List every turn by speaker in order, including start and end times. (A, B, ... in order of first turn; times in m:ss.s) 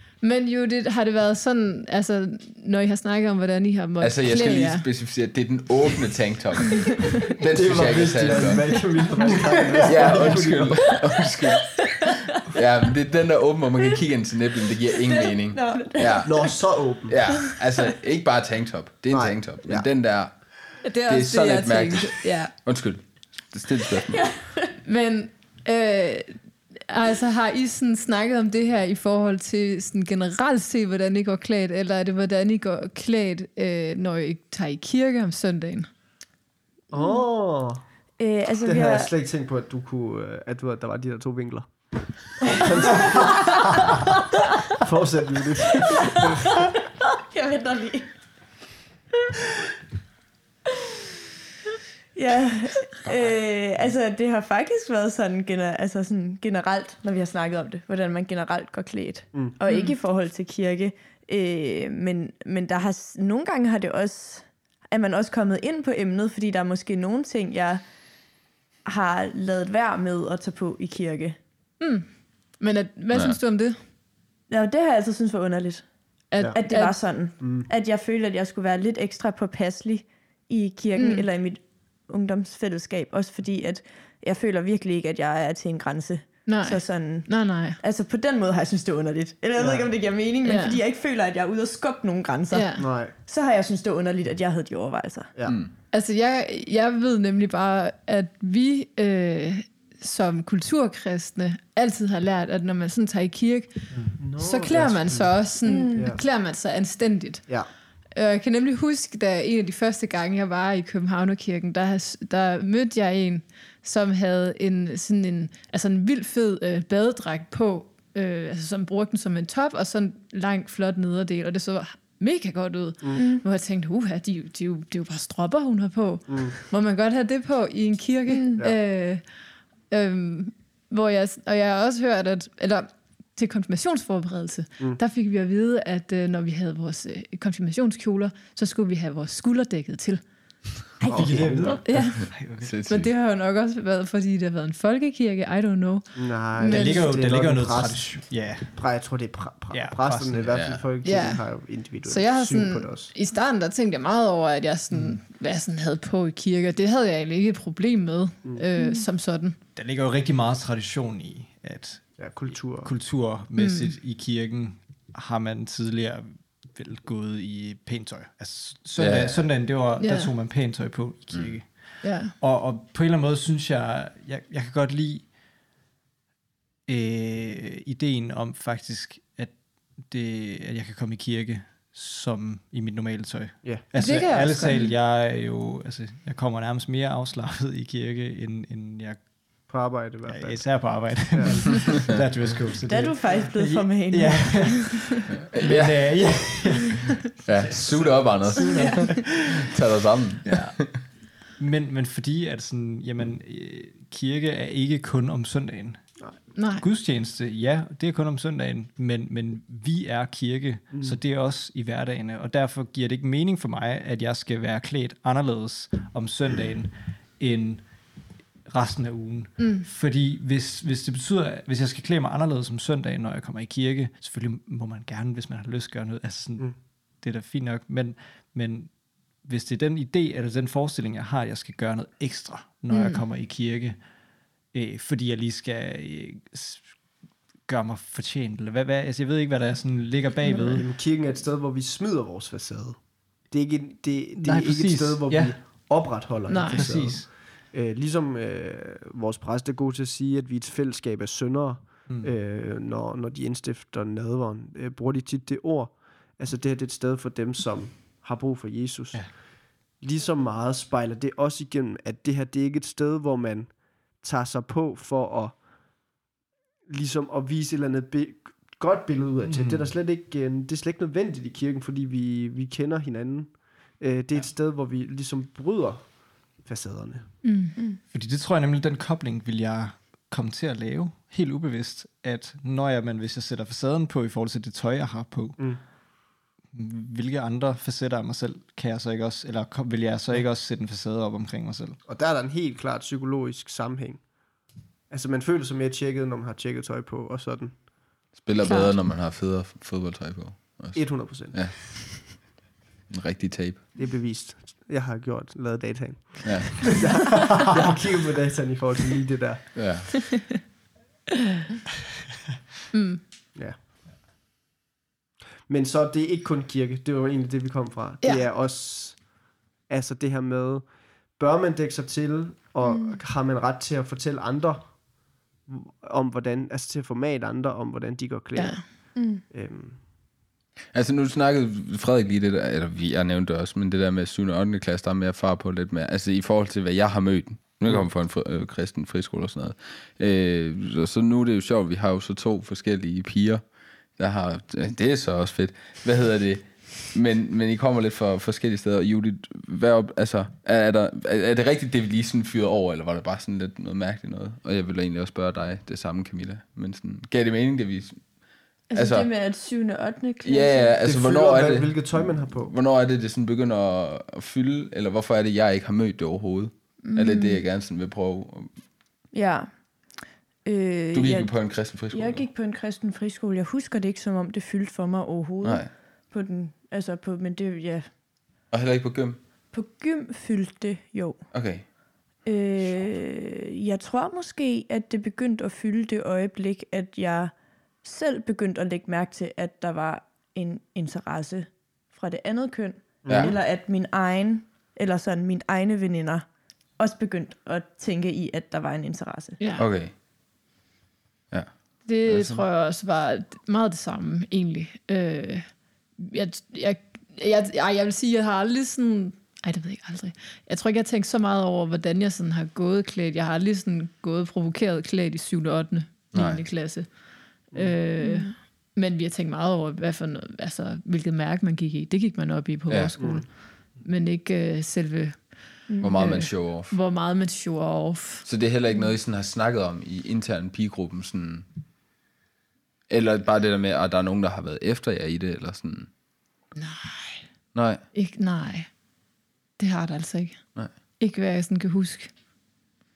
0:00.2-0:04.8 A
0:04.0-0:08.9 B
0:07.5-0:11.0 C
0:09.2-0:10.3 D
0:09.8-0:11.8 B
0:12.5-0:24.4 B
0:15.1-0:16.6 E
0:16.2-0:17.4 C
0:19.1-0:19.9 C
0:20.8-0:22.5 A
0:24.1-0:24.7 E
0:24.8-0:35.9 A
0:36.9-0:37.8 C
0:36.9-0:37.2 E
0:38.2-0:39.1 E
0:38.6-0:43.7 C
0:44.8-0:46.5 C
0:47.2-0:48.2 E
0:52.1-1:07.8 E
0:59.7-0:59.9 A
1:08.8-1:11.4 E
1:11.8-1:13.8 A
1:13.1-1:13.4 B
1:14.5-1:35.3 E
1:16.3-1:17.0 A
1:17.4-1:17.7 C
1:21.0-1:21.3 A
1:26.5-1:27.8 A
1:29.6-1:29.9 C
1:30.4-1:30.8 A
1:32.5-1:32.8 A
1:32.8-1:33.1 C
1:35.4-1:35.7 B
1:35.9-2:09.2 A
1:44.2-1:46.2 C
1:45.6-1:46.1 E
2:03.1-2:03.4 E
2:06.3-2:06.5 C
2:08.3-2:08.6 E
2:09.9-2:20.2 A
2:21.0-2:22.7 D
2:21.0-2:21.9 C
2:21.8-2:22.3 A
2:22.2-2:23.1 B
2:22.9-2:27.1 A
2:26.1-2:33.1 C
2:26.6-2:30.6 D
2:30.5-2:30.8 B
2:31.0-2:39.6 A
2:34.9-2:35.2 D
2:38.8-2:39.0 E
2:39.7-2:55.3 D
2:42.2-2:42.9 C
2:43.6-2:44.0 A
2:49.0-2:49.5 B
2:50.0-2:50.3 A
2:52.0-2:52.3 A
2:56.9-3:09.7 D
3:04.0-3:04.9 A
3:09.7-3:11.6 C
3:10.2-3:19.7 D
3:12.9-3:15.0 E
3:15.3-3:16.7 B
3:17.4-3:21.0 B
3:18.7-3:19.2 E
3:20.4-3:54.0 D
3:26.5-3:26.8 A
3:30.9-3:31.2 C
3:39.6-3:39.8 A
3:52.9-3:53.2 A
3:54.7-3:57.0 D
3:57.6-4:00.8 D
4:00.5-4:00.8 A
4:00.8-4:26.0 C
4:04.4-4:05.9 D
4:06.5-4:07.0 A
4:06.6-4:07.3 D
4:12.1-4:12.3 D
4:26.9-4:37.4 C
4:29.4-4:29.9 D
4:37.4-4:37.8 A
4:38.1-4:45.7 D
4:46.7-4:52.0 D
4:52.0-4:58.2 C
4:58.3-5:02.5 B
4:58.6-4:58.9 A
5:00.9-5:01.6 C
5:03.1-5:03.9 B
5:03.9-5:09.8 C
5:06.4-5:07.0 B
5:09.7-5:10.1 B
5:10.2-5:10.5 A
5:12.9-5:13.2 A
5:15.7-5:25.1 C
5:18.2-5:18.5 A
5:22.8-5:23.2 E
5:25.6-5:30.0 C
5:28.5-5:28.8 A
5:29.1-5:29.4 E
5:30.9-5:58.3 B
5:58.9-6:00.9 E
5:58.9-5:59.3 B
6:00.4-6:08.8 B
6:01.0-6:02.7 C
6:07.0-6:07.6 E
6:09.3-6:18.1 E
6:11.1-6:12.4 B
6:15.6-6:15.9 B
6:18.7-6:19.4 B
6:19.7-6:21.9 E
6:21.5-6:21.9 B
6:22.4-6:36.4 E
6:33.2-6:33.5 C
6:33.3-6:33.5 B
6:37.0-6:39.6 E
6:39.6-6:39.8 A
6:39.8-6:40.1 B
6:41.5-6:42.6 B
6:42.0-7:08.4 A
6:56.3-6:56.6 B
6:58.2-6:58.5 E
7:02.9-7:03.2 B
7:03.2-7:03.4 C
7:05.9-7:06.2 E
7:06.0-7:06.9 B
7:08.4-7:11.6 B
7:13.1-7:16.1 B
7:16.8-7:17.4 A
7:17.7-7:18.0 B
7:18.1-7:18.9 A
7:19.8-7:22.3 A